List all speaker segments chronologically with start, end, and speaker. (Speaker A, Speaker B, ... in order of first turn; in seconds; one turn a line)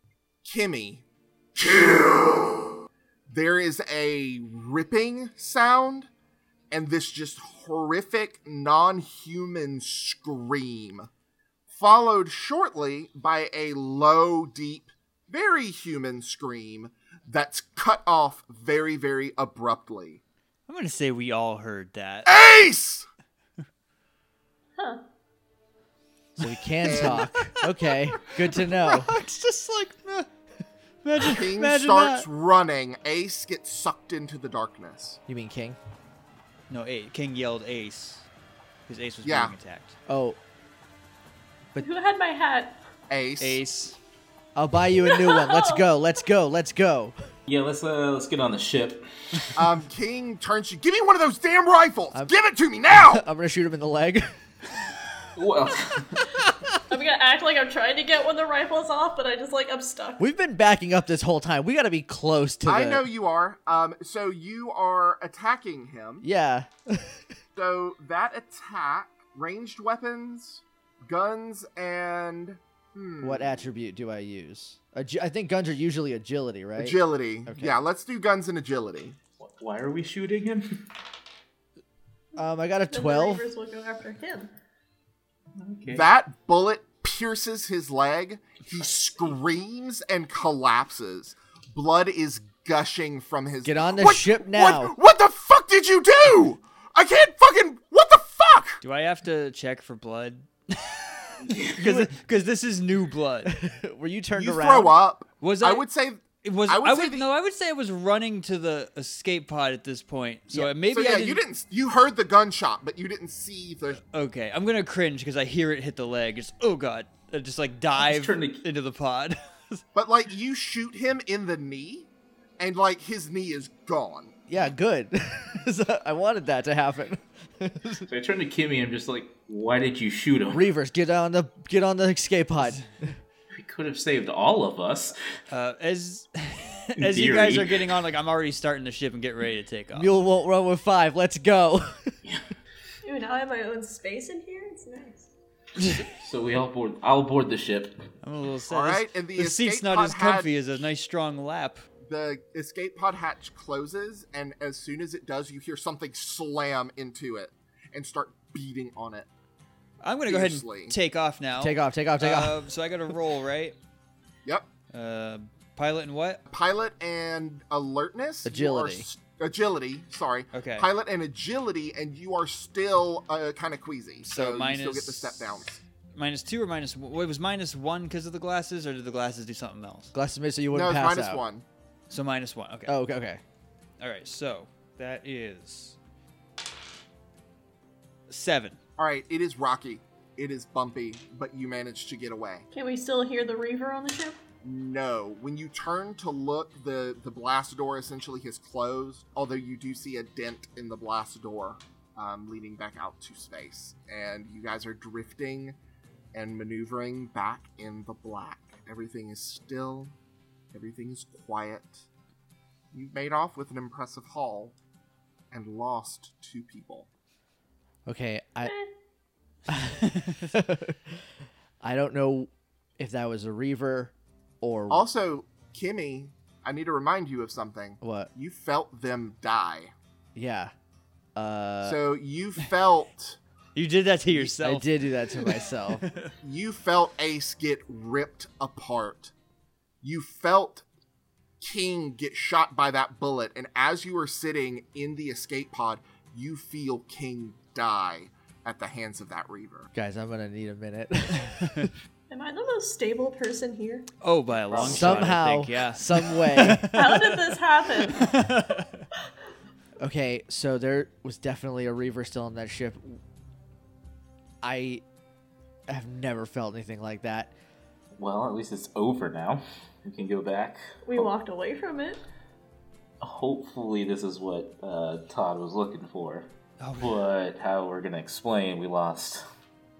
Speaker A: 0.4-1.0
Speaker A: 1.5-2.6
Speaker A: 3.3-6.1
Speaker A: 6.7-11.1
Speaker A: 11.7-20.2
Speaker B: 20.7-22.3
Speaker A: 22.2-23.1
Speaker C: 24.8-25.0
Speaker D: 26.4-29.1
Speaker B: 26.8-27.6
Speaker A: 26.8-27.2
Speaker B: 28.3-30.3
Speaker B: 31.0-32.2
Speaker A: 31.2-35.2
Speaker D: 35.3-35.8
Speaker B: 36.7-38.2
Speaker B: 38.9-40.0
Speaker A: 39.2-39.5
Speaker D: 40.1-40.4
Speaker C: 41.8-42.8
Speaker A: 43.1-43.6
Speaker B: 43.4-44.0
Speaker D: 44.5-47.1
Speaker C: 45.1-45.9
Speaker E: 47.5-49.5
Speaker A: 49.5-53.2
Speaker D: 52.9-54.3
Speaker E: 55.3-56.2
Speaker C: 56.9-60.2
Speaker D: 60.2-63.1
Speaker A: 62.6-66.2
Speaker D: 66.2-67.2
Speaker A: 67.5-73.6
Speaker D: 73.2-77.8
Speaker A: 76.8-79.2
Speaker E: 79.4-80.8
Speaker D: 82.4-83.4
Speaker C: 82.4-84.5
Speaker E: 85.5-86.1
Speaker A: 85.9-98.8
Speaker D: 93.6-94.9
Speaker B: 98.8-103.5
Speaker E: 101.4-102.1
Speaker D: 103.5-105.0
Speaker A: 104.3-107.3
Speaker B: 105.4-105.8
Speaker B: 106.4-111.4
Speaker A: 110.9-114.0
Speaker B: 114.0-119.8
Speaker E: 118.0-118.6
Speaker A: 119.9-122.1
Speaker A: 122.6-124.3
Speaker D: 124.5-128.1
Speaker E: 128.1-130.7
Speaker D: 130.5-132.9
Speaker E: 133.5-135.2
Speaker B: 135.5-140.1
Speaker E: 136.9-138.0
Speaker D: 139.9-142.2
Speaker C: 143.0-145.3
Speaker E: 146.1-148.1
Speaker B: 148.2-151.8
Speaker A: 148.7-150.5
Speaker A: 152.0-159.3
Speaker B: 160.0-163.8
Speaker A: 160.3-160.9
Speaker D: 161.6-162.6
Speaker B: 164.9-166.4
Speaker A: 166.5-175.8
Speaker D: 168.4-169.1
Speaker B: 170.5-170.9
Speaker B: 174.2-175.5
Speaker B: 176.2-180.1
Speaker D: 180.1-181.4
Speaker A: 180.7-181.6
Speaker B: 182.1-182.9
Speaker D: 182.9-183.4
Speaker B: 184.0-186.0
Speaker B: 188.3-188.8
Speaker A: 189.0-192.7
Speaker C: 192.7-194.4
Speaker A: 194.6-205.8
Speaker A: 206.3-210.1
Speaker A: 210.7-212.0
Speaker A: 212.9-214.7
Speaker A: 215.5-217.1
Speaker D: 218.1-218.7
Speaker C: 218.6-218.9
Speaker D: 219.7-221.2
Speaker B: 220.1-220.4
Speaker D: 221.8-225.1
Speaker A: 224.9-229.9
Speaker D: 228.0-228.3
Speaker D: 230.3-230.7
Speaker D: 231.3-232.0
Speaker A: 231.8-233.4
Speaker B: 233.7-234.9
Speaker D: 234.3-236.0
Speaker B: 235.4-236.3
Speaker A: 236.4-239.3
Speaker A: 240.0-240.8
Speaker A: 241.6-249.9
Speaker D: 249.9-251.9
Speaker B: 251.4-251.9
Speaker C: 252.3-254.1
Speaker B: 254.2-257.6
Speaker E: 254.7-255.4
Speaker D: 254.8-256.9
Speaker C: 256.9-258.4
Speaker B: 258.1-259.0
Speaker D: 260.0-263.2
Speaker D: 264.6-265.0
Speaker D: 265.9-267.5
Speaker E: 268.2-271.3
Speaker C: 271.1-272.2
Speaker E: 273.2-279.4
Speaker B: 276.8-277.2